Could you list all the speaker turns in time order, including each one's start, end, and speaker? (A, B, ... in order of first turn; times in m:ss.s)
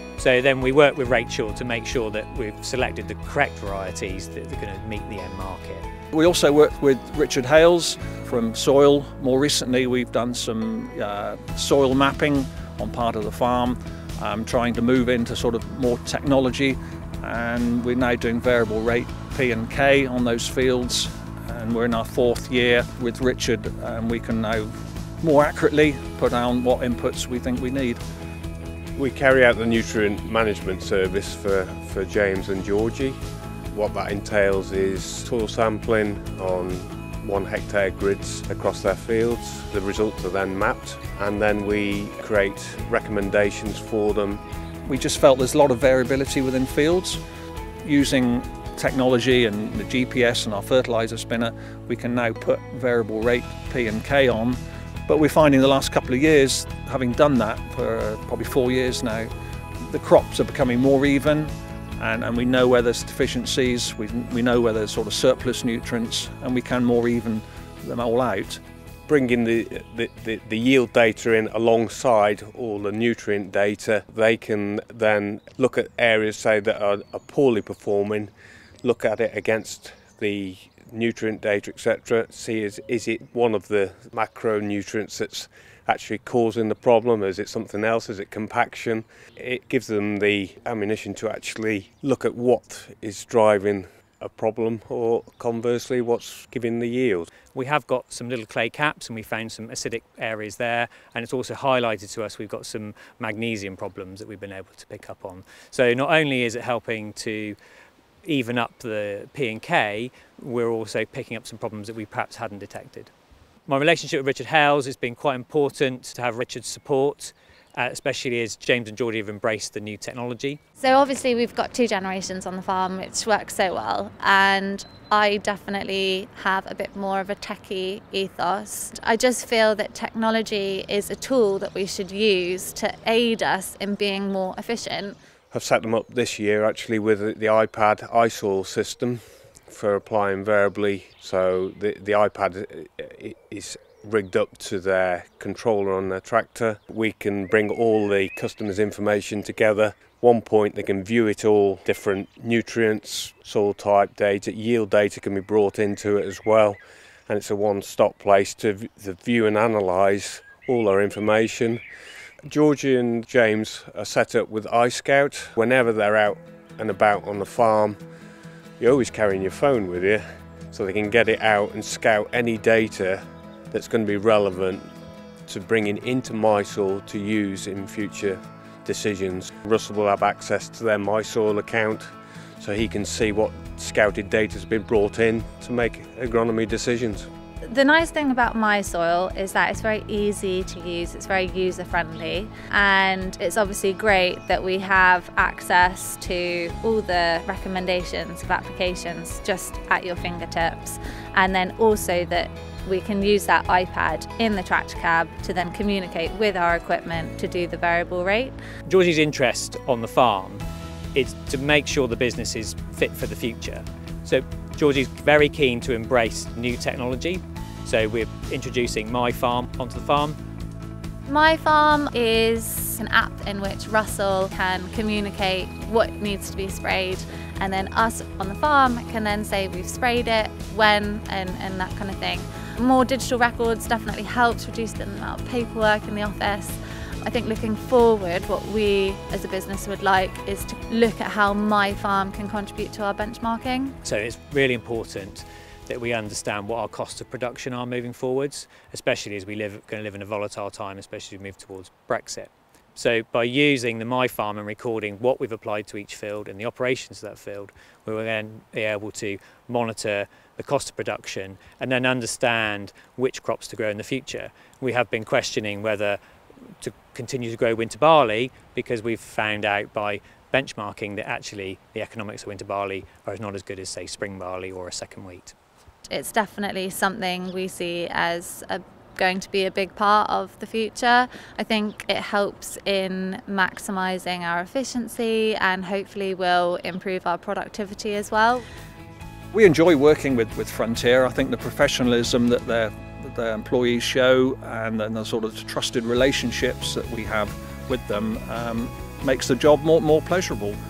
0:00.2-0:05.8 A
0:06.1-0:28.0 B
0:29.0-0:33.2 C
0:33.7-0:44.4 C
0:44.9-0:47.2 B
0:47.8-0:59.3 B
0:59.9-1:08.6 B
1:09.1-1:18.3 C
1:18.8-1:37.3 C
1:37.5-1:47.6 A
1:48.2-1:53.1 A
1:53.7-2:00.6 A
2:00.8-2:15.2 D
2:15.5-2:41.8 C
2:42.5-2:48.0 C
2:48.8-2:54.9 C
2:55.5-3:07.3 C
3:07.7-3:28.5 D
3:28.9-3:30.6 A
3:31.1-3:40.4 A
3:41.3-4:03.9 D
4:04.0-4:26.2 A
4:26.8-4:35.5 A
4:36.1-4:48.6 D
4:49.5-5:00.7 B